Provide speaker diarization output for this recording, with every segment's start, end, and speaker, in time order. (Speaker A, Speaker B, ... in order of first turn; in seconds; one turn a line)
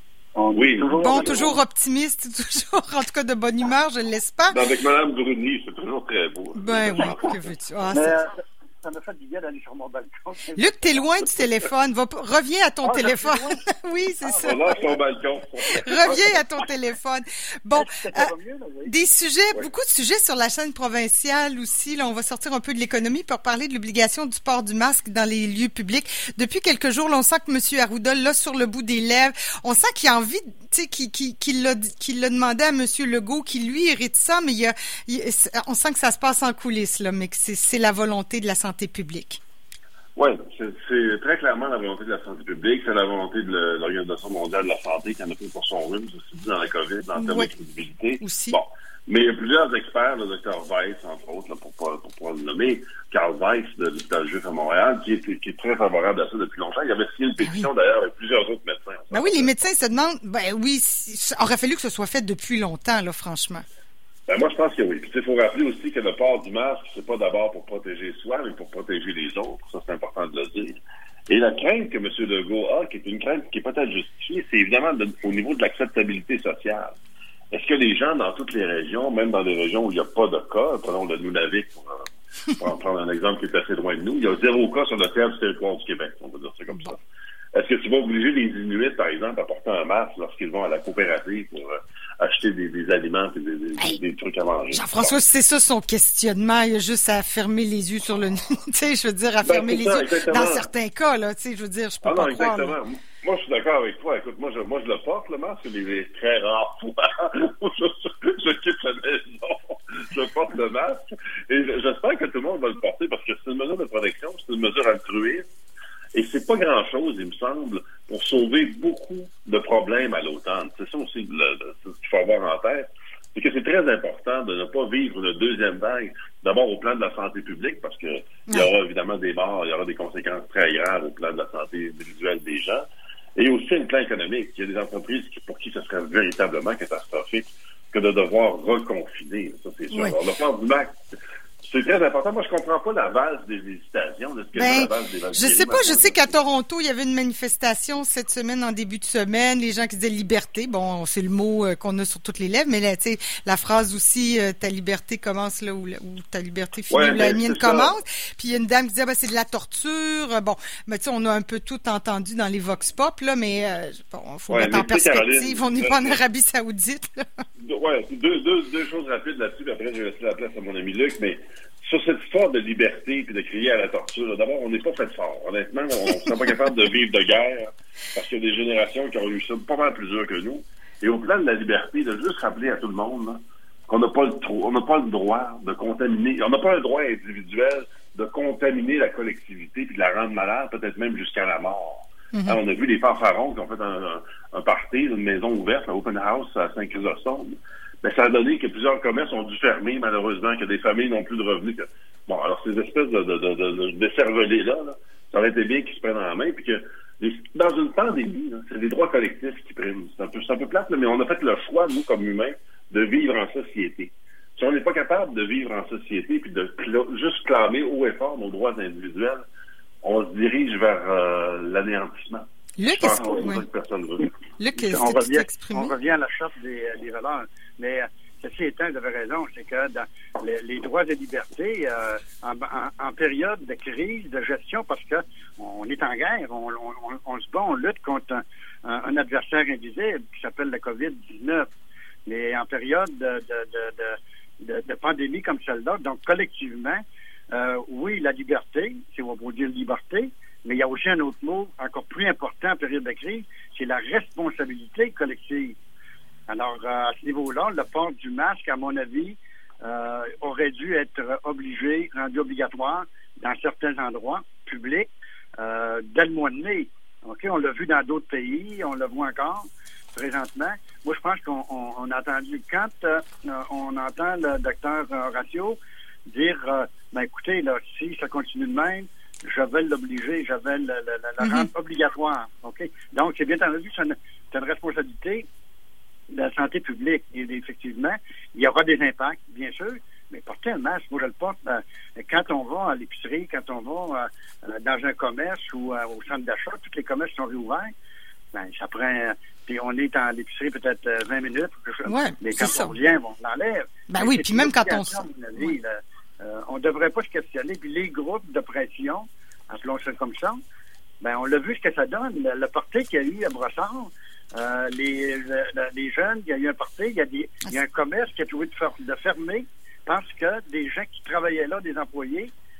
Speaker A: 0.3-1.5
Speaker B: 0.5-1.5
Speaker C: 0.9-4.5
Speaker B: 4.5-7.3
Speaker C: 6.5-8.2
Speaker A: 7.9-8.3
Speaker A: 8.8-11.0
Speaker C: 10.6-14.6
Speaker A: 12.8-13.6
Speaker A: 14.2-14.9
Speaker B: 14.4-16.2
Speaker C: 15.8-18.3
Speaker A: 17.7-18.9
Speaker C: 18.9-39.4
Speaker B: 40.1-59.5
Speaker C: 47.1-47.5
Speaker C: 48.2-48.6
Speaker C: 57.4-57.7
Speaker C: 59.1-63.6
Speaker B: 64.3-77.0
Speaker B: 77.5-82.1
Speaker B: 82.6-87.0
Speaker B: 87.5-95.1
Speaker C: 94.7-102.8
Speaker B: 99.4-100.7
Speaker B: 102.0-115.5
Speaker B: 116.1-132.8
Speaker B: 133.4-140.9
Speaker C: 139.9-140.2
Speaker B: 141.6-146.2
Speaker C: 144.5-167.2
Speaker B: 156.9-157.9
Speaker B: 164.5-166.2
Speaker B: 167.6-219.4
Speaker C: 192.3-192.6
Speaker B: 220.0-224.3
Speaker C: 222.8-223.6
Speaker C: 224.6-225.9
Speaker A: 224.8-241.7
Speaker A: 242.2-255.8
Speaker A: 256.5-285.4
Speaker C: 281.4-281.7
Speaker A: 286.3-297.9
Speaker A: 298.5-310.6
Speaker C: 302.0-302.9
Speaker C: 304.1-305.7
Speaker A: 311.2-322.5